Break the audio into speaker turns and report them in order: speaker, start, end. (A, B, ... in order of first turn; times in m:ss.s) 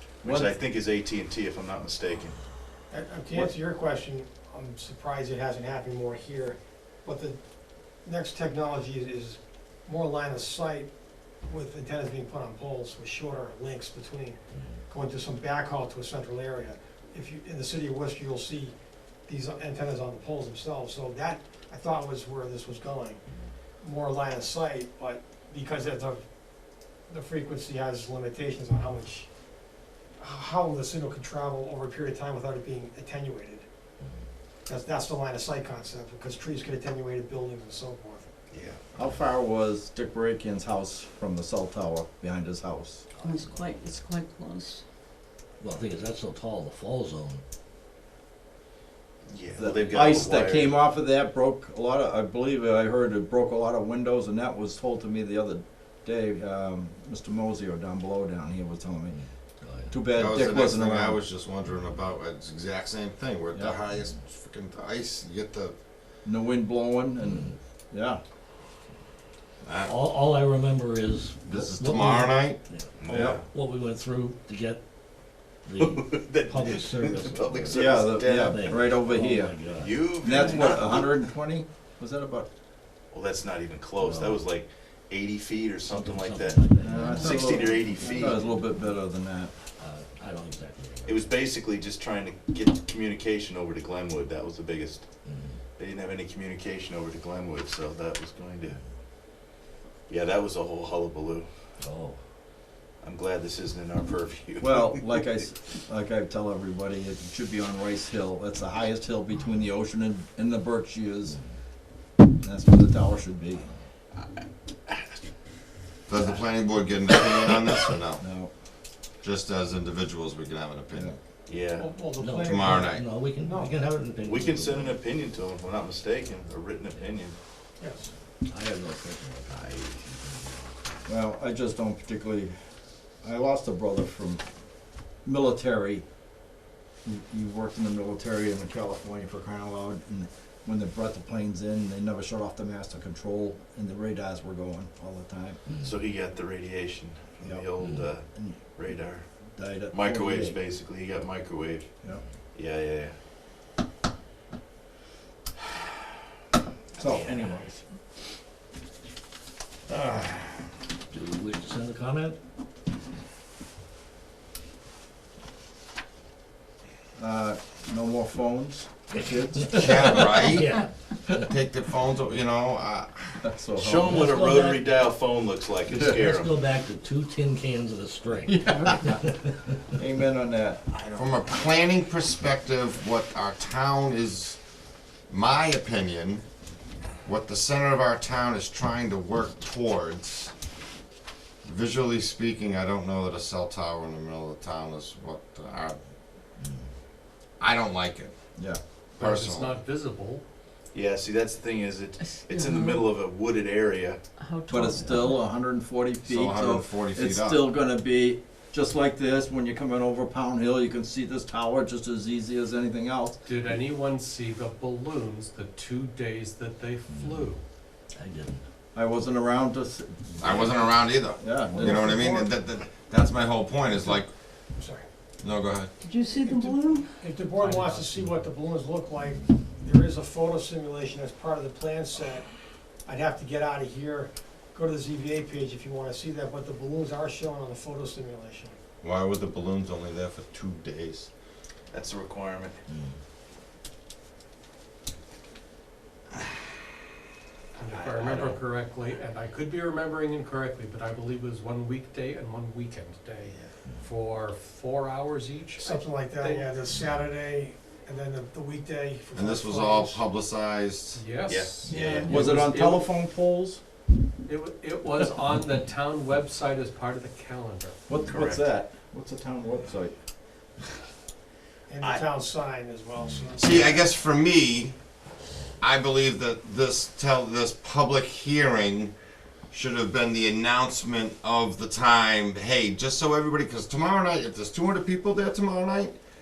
0:00.2-0:02.4 A
0:00.2-0:00.5 B
0:02.9-0:07.4 C
0:08.0-0:10.9 C
0:11.5-0:14.4 C
0:14.9-0:18.8 C
0:19.3-0:23.2 C
0:23.8-0:26.2 C
0:27.1-0:29.3 C
0:30.2-0:33.6 C
0:34.7-0:38.3 C
0:38.5-0:38.9 A
0:39.0-0:43.0 B
0:43.2-0:44.8 D
0:45.6-0:47.4 E
0:49.3-0:50.8 A
0:49.6-0:59.2 B
0:59.1-1:00.0 E
0:59.9-1:01.2 B
1:00.1-1:05.8 F
1:03.5-1:03.8 B
1:06.2-1:08.2 B
1:07.2-1:07.6 E
1:09.6-1:10.0 F
1:09.9-1:14.8 E
1:11.5-1:12.6 F
1:13.0-1:13.4 A
1:13.1-1:13.4 B
1:15.6-1:20.2 E
1:15.8-1:19.0 A
1:17.7-1:19.6 B
1:19.7-1:21.2 A
1:20.1-1:22.5 B
1:23.1-1:28.4 A
1:24.0-1:24.4 E
1:25.9-1:27.5 E
1:26.8-1:29.5 B
1:28.1-1:28.5 E
1:29.8-1:31.3 E
1:31.0-1:35.1 A
1:35.2-1:35.6 E
1:35.8-1:38.8 A
1:40.1-1:41.5 A
1:41.8-1:42.2 E
1:43.0-1:45.0 A
1:44.6-1:51.4 B
1:52.4-1:53.7 B
1:56.1-1:58.2 F
1:58.2-1:58.5 B
1:59.2-2:01.1 F
2:01.5-2:01.9 A
2:01.8-2:03.8 C
2:02.2-2:05.0 E
2:02.4-2:03.1 F
2:04.2-2:07.4 A
2:07.8-2:08.1 C
2:08.5-2:10.1 E
2:09.5-2:09.9 A
2:11.1-2:12.5 B
2:13.2-2:14.4 B
2:15.2-2:16.0 B
2:17.0-2:25.6 B
2:25.8-2:29.2 A
2:27.4-2:27.7 B
2:27.8-2:28.1 E
2:29.6-2:30.6 B
2:29.9-2:31.9 A
2:32.5-2:33.1 A
2:37.0-2:37.8 B
2:41.1-2:42.4 E
2:47.2-2:50.2 B
2:49.7-2:53.4 F
2:53.4-2:54.3 B
2:53.8-2:56.6 A
2:54.1-2:54.9 E
2:55.9-2:59.2 E
2:56.0-2:56.2 B
2:58.5-2:59.3 B
2:59.9-3:00.8 B
3:01.0-3:01.3 A
3:01.2-3:04.6 F
3:05.3-3:06.4 F
3:07.2-3:10.5 F
3:11.6-3:16.0 F
3:17.6-3:18.3 F
3:19.2-3:19.8 F
3:19.2-3:20.4 G
3:20.9-3:24.2 A
3:22.5-3:23.0 D
3:24.4-3:25.1 D
3:24.7-3:33.4 B
3:26.2-3:27.6 F
3:33.4-3:37.6 G
3:37.1-3:37.5 E
3:38.2-3:38.6 E
3:38.9-3:40.8 B
3:40.4-3:44.3 F
3:41.4-3:42.3 B
3:41.7-3:42.5 C
3:44.8-3:45.0 C
3:45.4-3:45.9 F
3:46.0-3:47.0 D
3:46.3-3:52.5 C
3:47.3-3:48.3 G
3:53.0-3:58.8 C
3:59.0-4:01.3 F
4:01.9-4:02.8 A
4:07.8-4:08.6 A
4:07.8-4:16.7 G
4:13.4-4:13.7 A
4:15.8-4:20.2 C
4:19.3-4:21.3 F
4:21.1-4:21.9 G
4:21.4-4:22.8 A
4:21.9-4:23.8 B
4:22.6-4:23.1 G
4:24.5-4:28.0 G
4:28.1-4:30.1 B
4:28.2-4:28.7 A
4:31.9-4:34.1 C
4:33.6-4:35.0 F
4:35.8-4:39.1 F
4:39.7-4:46.2 F